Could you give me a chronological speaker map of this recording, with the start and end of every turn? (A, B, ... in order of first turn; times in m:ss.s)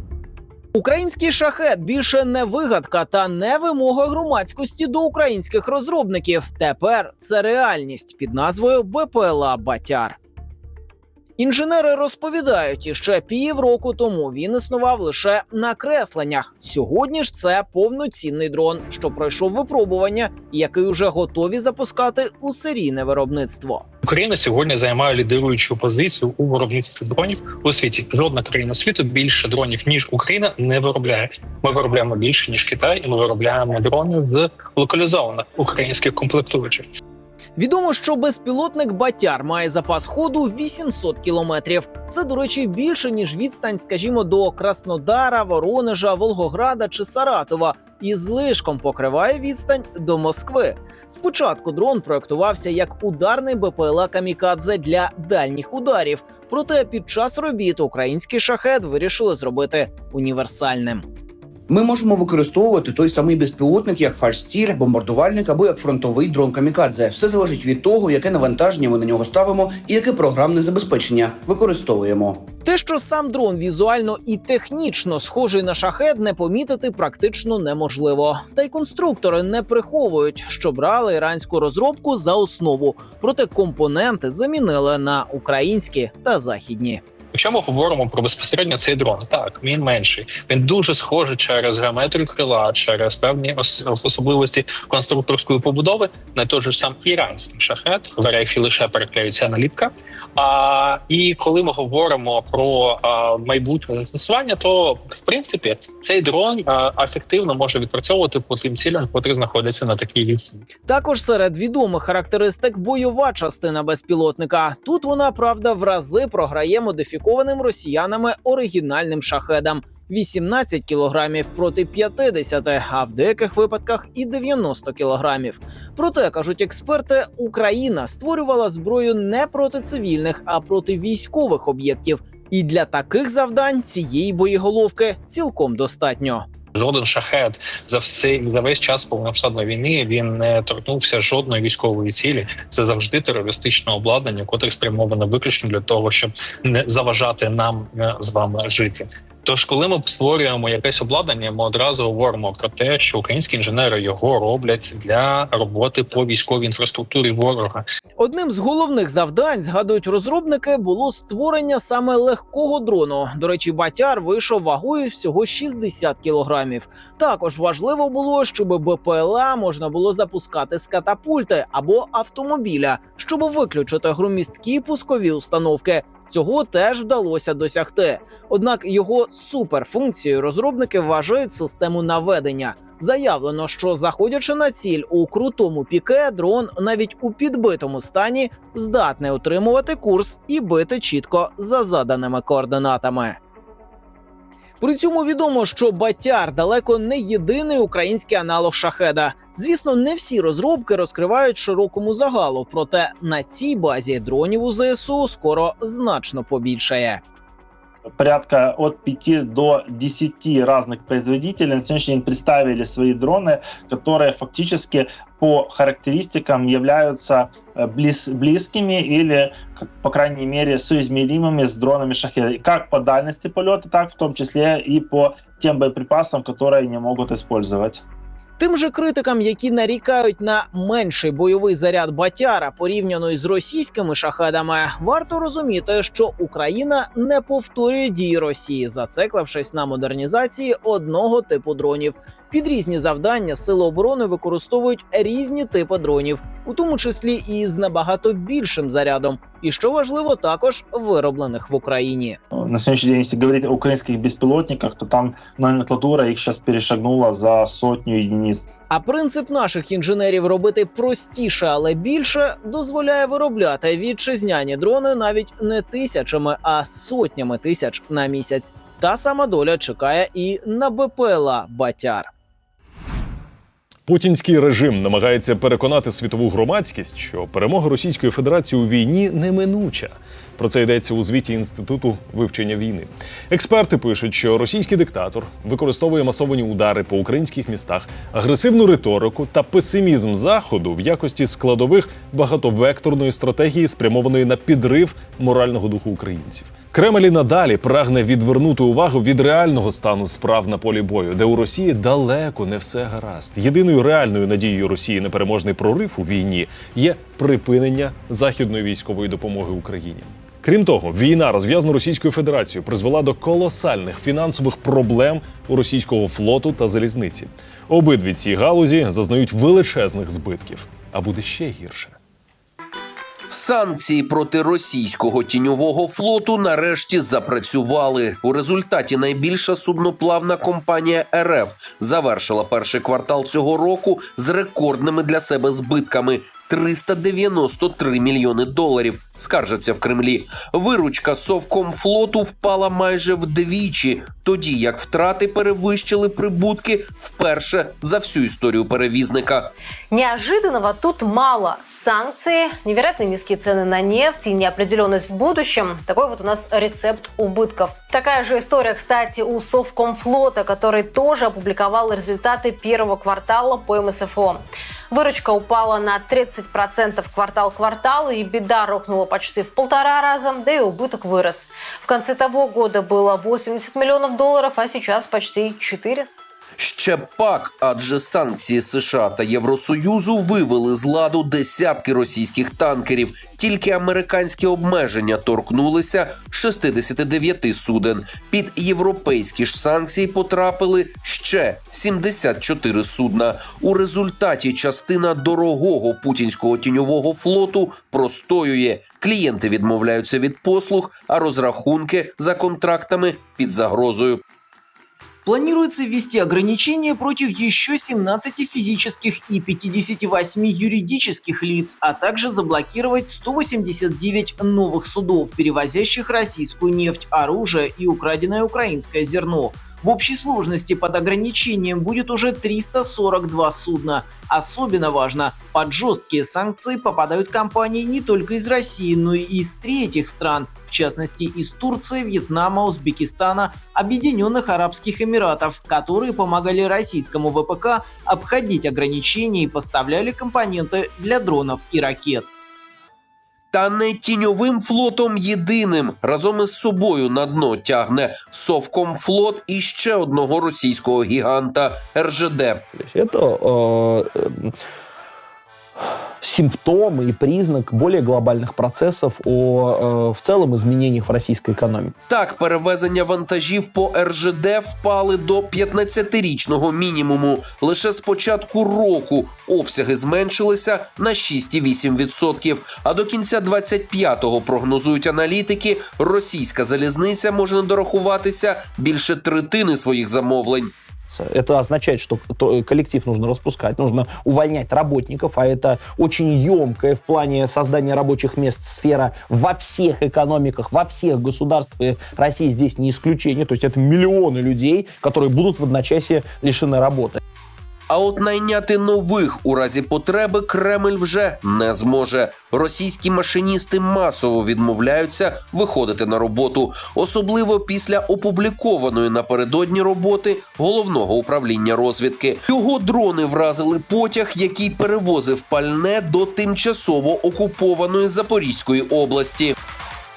0:00.7-0:10.2 A
0:11.4-0:23.8 A
0:24.0-0:36.9 B
0:37.6-1:01.0 A
1:01.7-1:12.5 C
1:12.6-1:27.0 A
1:27.3-1:50.6 B
1:50.9-2:16.4 A
2:16.7-2:37.8 B
2:38.2-3:13.4 A
3:14.8-3:27.2 A
3:28.2-3:48.0 D
3:48.6-4:12.4 A
4:12.5-4:18.6 D
4:18.9-4:32.3 A
4:34.0-5:22.2 E
5:23.5-5:49.7 F
5:50.1-6:16.3 G
6:16.8-6:44.4 F
6:45.4-7:22.5 A
7:23.7-7:32.8 F
7:33.0-7:34.7 H
7:36.4-7:42.1 H
7:42.3-8:00.9 F
8:01.3-8:17.4 H
8:18.1-8:39.7 F